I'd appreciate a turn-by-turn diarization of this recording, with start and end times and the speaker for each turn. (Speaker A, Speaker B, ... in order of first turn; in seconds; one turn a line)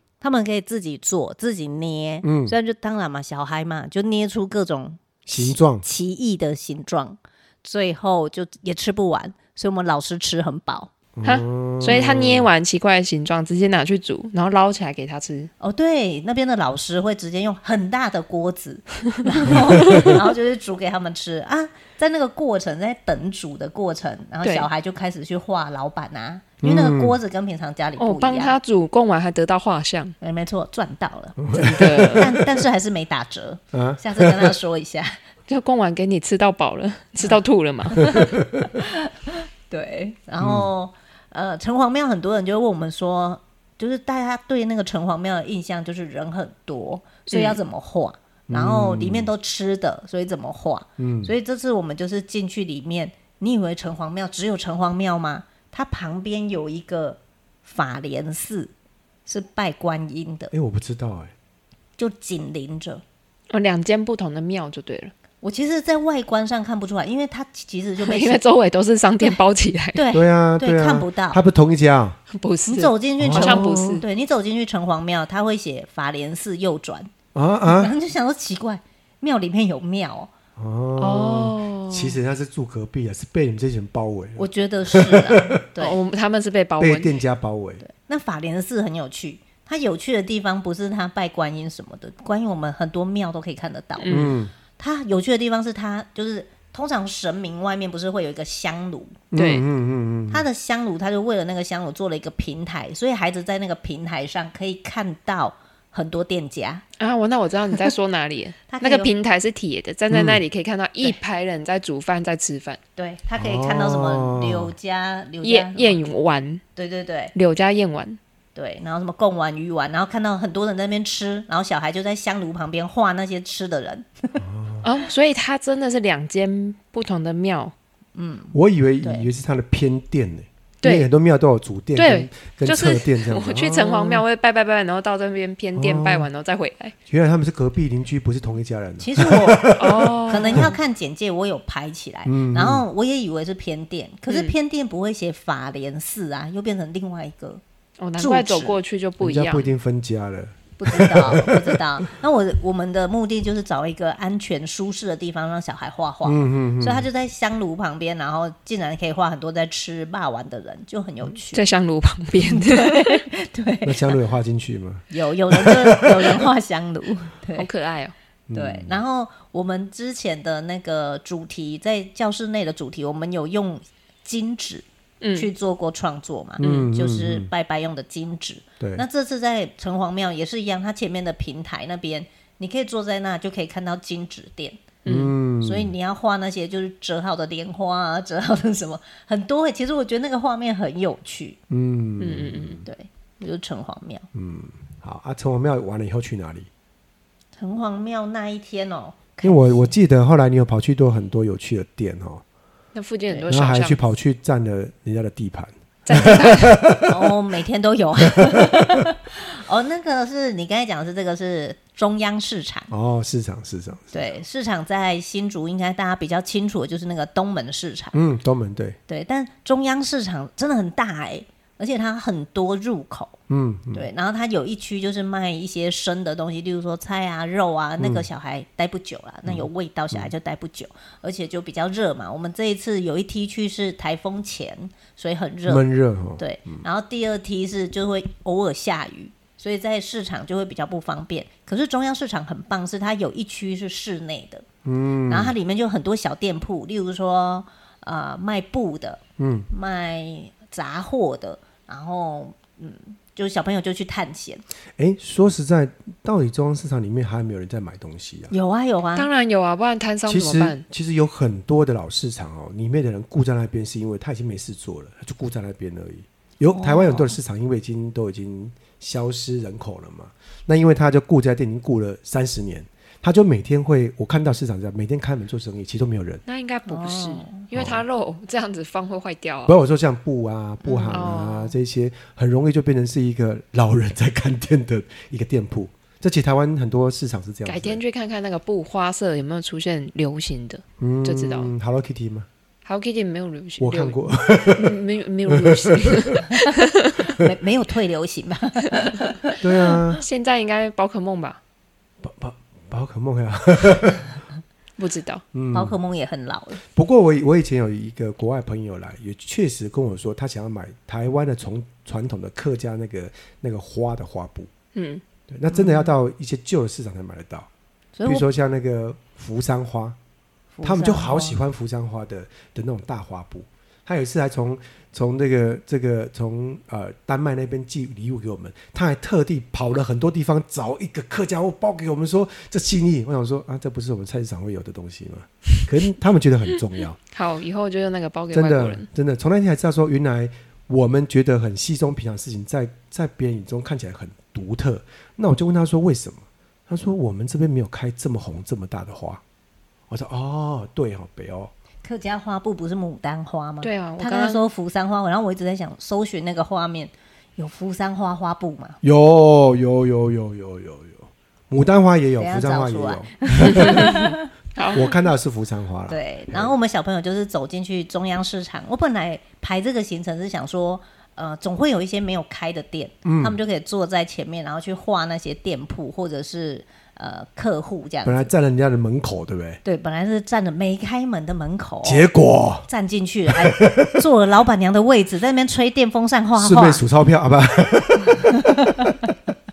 Speaker A: 0.2-10.9
Speaker B: 2.2-2.5
Speaker B: 5.3-5.9
Speaker B: 11.2-12.5
Speaker C: 11.2-15.5
Speaker A: 15.6-28.6
Speaker B: 19.5-20.2
Speaker C: 24.4-24.7
Speaker B: 26.6-27.2
Speaker C: 28.0-30.1
Speaker A: 30.2-35.2
Speaker B: 31.4-32.5
Speaker C: 31.6-32.4
Speaker B: 33.7-34.6
Speaker C: 35.5-38.2
Speaker A: 37.9-58.7
Speaker B: 38.1-38.7
Speaker B: 40.4-40.7
Speaker C: 47.3-47.6
Speaker B: 48.5-49.3
Speaker B: 51.0-51.3
Speaker A: 59.3-60.5
Speaker B: 60.5-61.3
Speaker A: 62.0-63.0
Speaker C: 63.5-65.1
Speaker A: 65.4-68.4
Speaker C: 68.0-70.0
Speaker A: 70.0-71.4
Speaker B: 70.1-72.2
Speaker C: 72.3-74.0
Speaker A: 72.7-77.1
Speaker B: 73.2-74.0
Speaker B: 77.3-77.9
Speaker A: 77.7-80.3
Speaker B: 80.6-85.6
Speaker C: 81.0-82.2
Speaker A: 84.4-86.0
Speaker C: 85.8-87.2
Speaker B: 86.8-87.8
Speaker A: 87.8-94.3
Speaker C: 94.0-94.4
Speaker B: 94.1-94.5
Speaker A: 94.8-99.2
Speaker B: 99.3-100.5
Speaker C: 99.3-99.7
Speaker A: 100.3-106.8
Speaker C: 107.0-112.8
Speaker A: 108.7-109.1
Speaker B: 110.1-110.4
Speaker A: 113.0-116.0
Speaker B: 113.4-114.7
Speaker C: 115.4-116.6
Speaker A: 116.8-117.3
Speaker C: 117.3-118.2
Speaker A: 118.5-124.4
Speaker B: 124.4-124.9
Speaker C: 124.8-127.7
Speaker A: 128.2-129.3
Speaker B: 128.5-134.2
Speaker C: 130.8-131.1
Speaker C: 132.0-136.9
Speaker B: 135.8-136.3
Speaker B: 137.1-140.8
Speaker A: 139.0-147.6
Speaker C: 139.8-140.7
Speaker B: 142.3-142.8
Speaker C: 144.3-144.5
Speaker C: 148.0-149.7
Speaker A: 148.2-148.8
Speaker B: 149.2-152.0
Speaker A: 150.8-161.6
Speaker B: 156.2-157.1
Speaker C: 161.5-163.2
Speaker A: 162.4-164.2
Speaker B: 163.8-166.3
Speaker A: 165.1-167.7
Speaker C: 167.6-168.2
Speaker B: 168.5-169.0
Speaker A: 168.5-184.9
Speaker C: 175.2-175.5
Speaker B: 176.6-177.5
Speaker C: 176.6-176.9
Speaker B: 178.8-179.1
Speaker C: 185.1-185.3
Speaker B: 185.1-185.9
Speaker A: 185.6-191.6
Speaker B: 191.7-192.8
Speaker C: 192.2-192.8
Speaker A: 192.8-194.3
Speaker B: 194.3-196.7
Speaker A: 197.6-199.9
Speaker B: 199.4-202.4
Speaker C: 202.9-204.0
Speaker B: 203.5-207.3
Speaker C: 206.1-206.8
Speaker A: 207.1-212.9
Speaker B: 208.2-209.1
Speaker B: 212.9-214.2
Speaker A: 214.1-218.2
Speaker B: 218.1-219.0
Speaker A: 219.1-223.4
Speaker B: 223.5-224.1
Speaker A: 223.9-235.8
Speaker B: 228.0-228.3
Speaker B: 229.5-230.3
Speaker B: 235.7-236.8
Speaker A: 236.4-244.7
Speaker B: 244.8-245.5
Speaker A: 245.3-254.6
Speaker B: 249.4-249.7
Speaker B: 255.0-258.5
Speaker A: 258.5-259.3
Speaker C: 259.2-260.8
Speaker B: 260.3-276.4
Speaker A: 266.7-267.4
Speaker C: 276.5-279.8
Speaker A: 276.9-277.6
Speaker B: 277.7-278.0
Speaker B: 279.7-288.0
Speaker A: 280.9-281.2
Speaker C: 281.1-281.8
Speaker C: 287.7-291.7
Speaker B: 291.0-292.5
Speaker C: 292.9-294.2
Speaker B: 293.8-296.4
Speaker C: 294.7-297.2
Speaker A: 297.3-299.6
Speaker B: 299.6-300.2
Speaker C: 300.2-301.6
Speaker B: 302.2-304.4
Speaker C: 305.0-305.4
Speaker B: 305.5-306.0
Speaker A: 305.7-306.8
Speaker B: 306.9-314.7
Speaker C: 314.9-315.2
Speaker B: 315.5-317.7
Speaker A: 315.7-316.1
Speaker A: 318.2-318.5
Speaker B: 318.2-320.2
Speaker A: 320.7-321.6
Speaker B: 320.8-337.2
Speaker C: 337.3-339.1
Speaker B: 338.5-349.4
Speaker B: 350.1-351.7
Speaker A: 352.0-359.0
Speaker C: 353.8-354.7
Speaker B: 359.0-364.3
Speaker A: 362.4-364.5
Speaker C: 363.7-364.2
Speaker C: 364.8-365.1
Speaker B: 364.9-366.7
Speaker A: 366.1-378.5
Speaker B: 373.2-373.6
Speaker B: 378.2-379.8
Speaker A: 379.9-382.3
Speaker B: 382.0-382.9
Speaker A: 382.9-387.0
Speaker B: 383.5-384.2
Speaker B: 386.6-389.1
Speaker A: 388.4-389.3